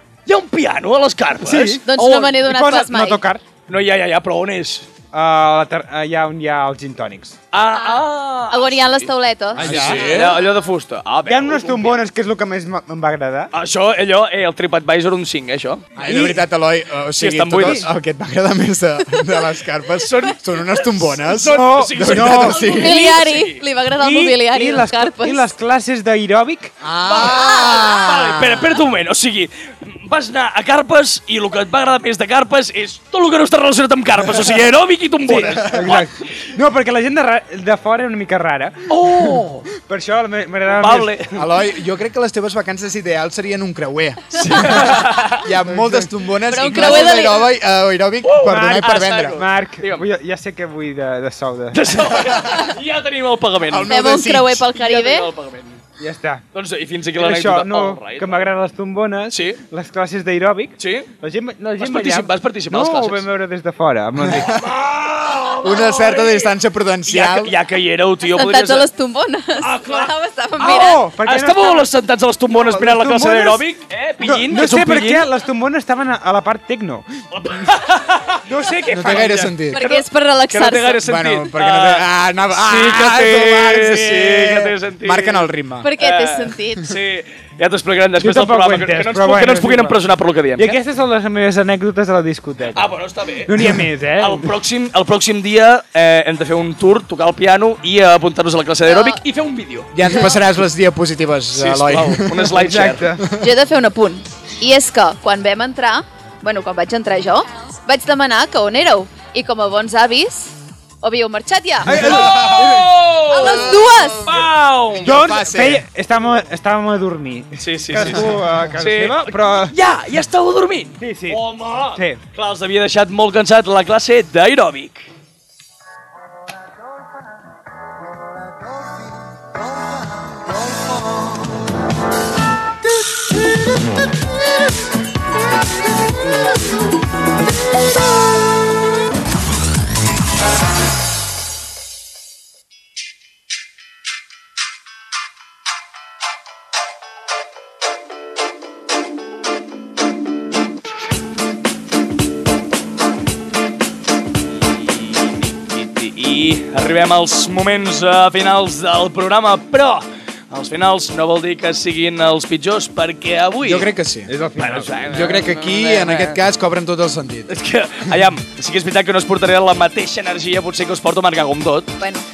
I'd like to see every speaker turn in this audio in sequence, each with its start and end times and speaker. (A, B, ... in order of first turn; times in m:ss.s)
0:00.2-0:02.4 A
0:01.4-0:03.4 B
0:01.9-0:03.2 C
0:03.7-0:04.9 A
0:05.1-0:07.4 B
0:07.5-0:12.0 A
0:07.7-0:10.3 C
0:09.6-0:10.2 B
0:09.6-0:10.4 D
0:11.2-0:13.5 B
0:13.5-0:15.9 A
0:16.0-0:23.0 D
0:16.0-0:16.4 B
0:17.2-0:17.8 A
0:20.0-0:23.6 A
0:21.4-0:22.7 B
0:22.6-0:25.5 C
0:24.0-0:26.7 B
0:26.8-0:28.8 D
0:27.0-0:36.1 A
0:27.3-0:27.9 C
0:35.3-0:36.0 D
0:35.3-0:41.1 B
0:38.9-0:39.6 A
0:40.6-0:41.4 A
0:41.4-0:49.4 D
0:44.3-0:45.4 A
0:45.7-0:46.1 B
0:46.5-0:47.5 C
0:46.6-0:47.3 A
0:48.2-0:50.0 A
0:48.4-0:52.0 B
0:51.7-0:54.0 A
0:53.6-0:54.6 D
0:53.9-0:55.3 C
0:54.7-0:55.8 A
0:56.0-0:56.4 B
0:56.5-0:58.5 A
0:57.1-1:04.6 B
0:59.3-0:59.6 A
1:00.8-1:01.1 A
1:01.8-1:03.2 A
1:04.2-1:04.5 D
1:04.4-1:06.5 A
1:05.6-1:07.5 D
1:07.0-1:08.9 A
1:08.2-1:11.0 C
1:09.6-1:15.3 A
1:10.6-1:11.9 B
1:12.5-1:13.6 B
1:14.2-1:17.1 B
1:17.3-1:30.8 A
1:18.5-1:19.4 B
1:18.9-1:19.8 D
1:19.7-1:21.0 C
1:21.0-1:25.9 D
1:25.8-1:27.0 C
1:28.2-1:30.0 B
1:30.6-1:34.5 B
1:32.7-1:39.9 A
1:38.8-1:39.2 C
1:39.9-1:42.6 D
1:41.5-1:43.1 A
1:42.6-1:43.3 B
1:43.2-1:43.4 D
1:43.4-1:52.2 C
1:51.8-1:52.9 B
1:51.9-1:55.2 A
1:52.0-1:52.8 D
1:53.3-1:54.3 C
1:53.3-1:55.8 D
1:55.0-1:59.7 B
1:57.6-2:05.1 A
2:01.0-2:01.4 B
2:01.9-2:02.2 B
2:35.0-2:43.9 A
2:43.6-2:44.3 D
2:44.3-2:45.4 B
2:44.6-2:46.4 A
2:45.1-2:47.5 D
2:47.5-2:51.9 A